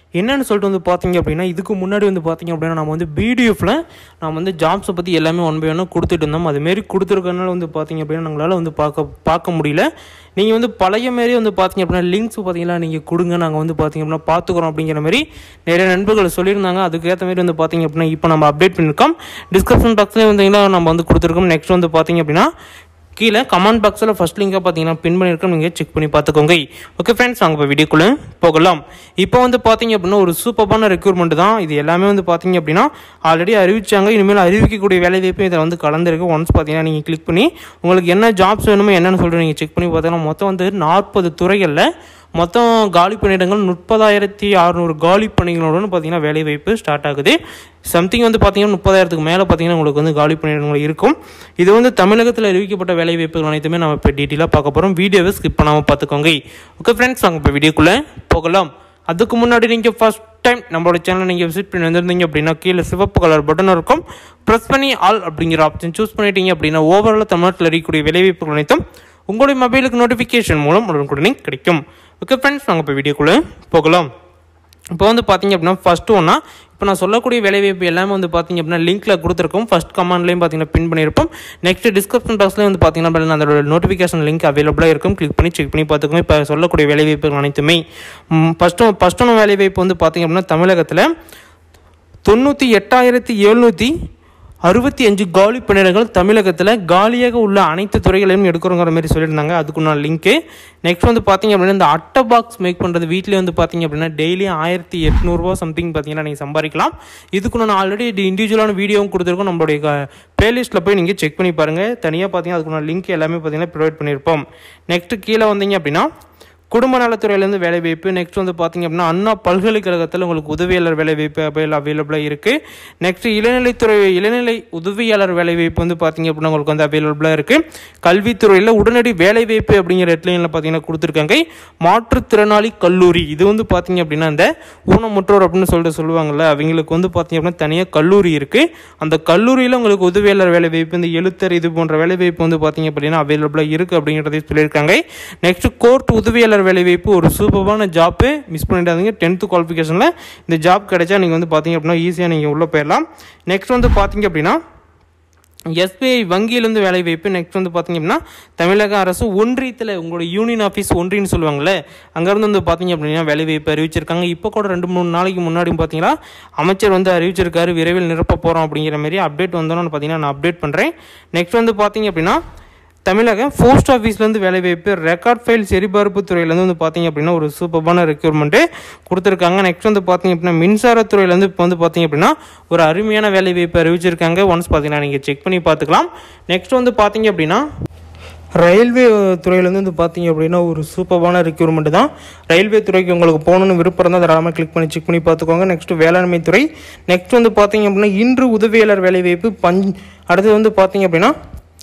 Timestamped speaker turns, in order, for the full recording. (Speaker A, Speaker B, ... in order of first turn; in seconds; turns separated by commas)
Speaker A: 0.2-22.5, Speaker A: 23.2-41.8, Speaker A: 42.4-47.4, Speaker A: 47.9-74.1, Speaker A: 74.9-87.8, Speaker A: 88.3-91.1, Speaker A: 92.3-93.9, Speaker A: 94.7-116.1, Speaker A: 116.7-154.6, Speaker A: 155.8-172.4, Speaker A: 173.1-187.6, Speaker A: 188.6-201.3